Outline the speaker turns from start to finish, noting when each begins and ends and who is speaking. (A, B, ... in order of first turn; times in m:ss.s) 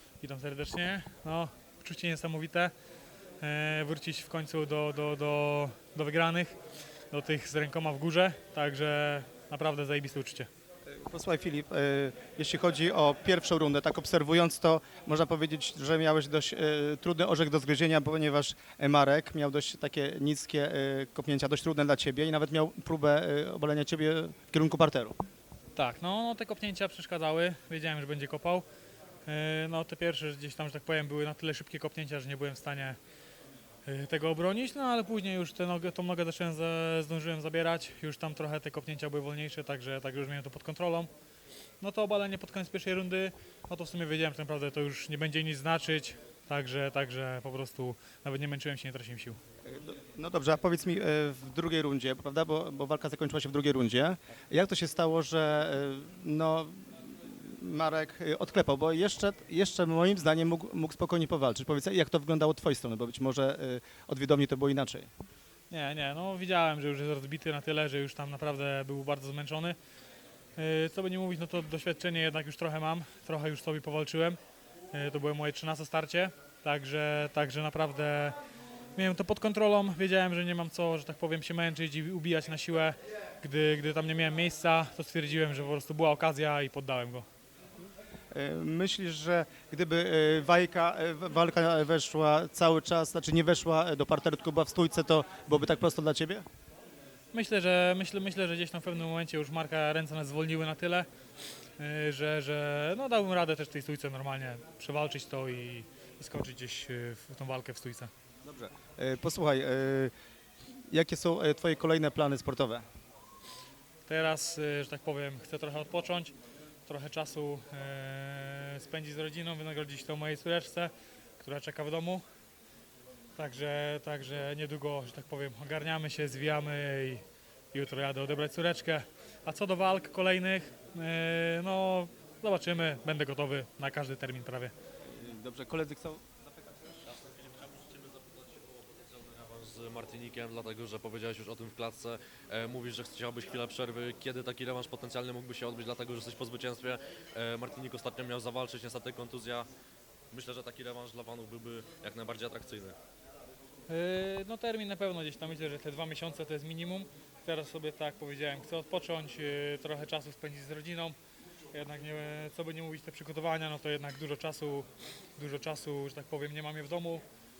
0:00.2-0:02.7 A
0:03.4-0:06.6 A
0:07.1-0:10.5 A
0:10.9-0:25.2 B
0:25.7-0:28.6 A
0:29.2-0:33.0 A
0:33.9-0:41.1 A
0:41.8-0:49.4 A
0:49.6-1:05.1 B
1:05.7-1:09.8 A
1:10.6-1:14.4 A
1:14.9-1:18.4 A
1:19.0-1:27.2 A
1:28.3-1:36.4 B
1:37.3-1:41.1 A
1:41.8-1:48.1 A
1:48.4-1:50.1 B
1:50.9-1:52.8 B
1:54.1-1:56.3 A
1:56.9-2:02.2 A
2:03.4-2:14.7 A
2:15.1-2:16.5 B
2:17.0-2:29.7 C
2:30.3-2:33.0 C
2:33.9-2:41.2 A
2:41.7-2:47.2 A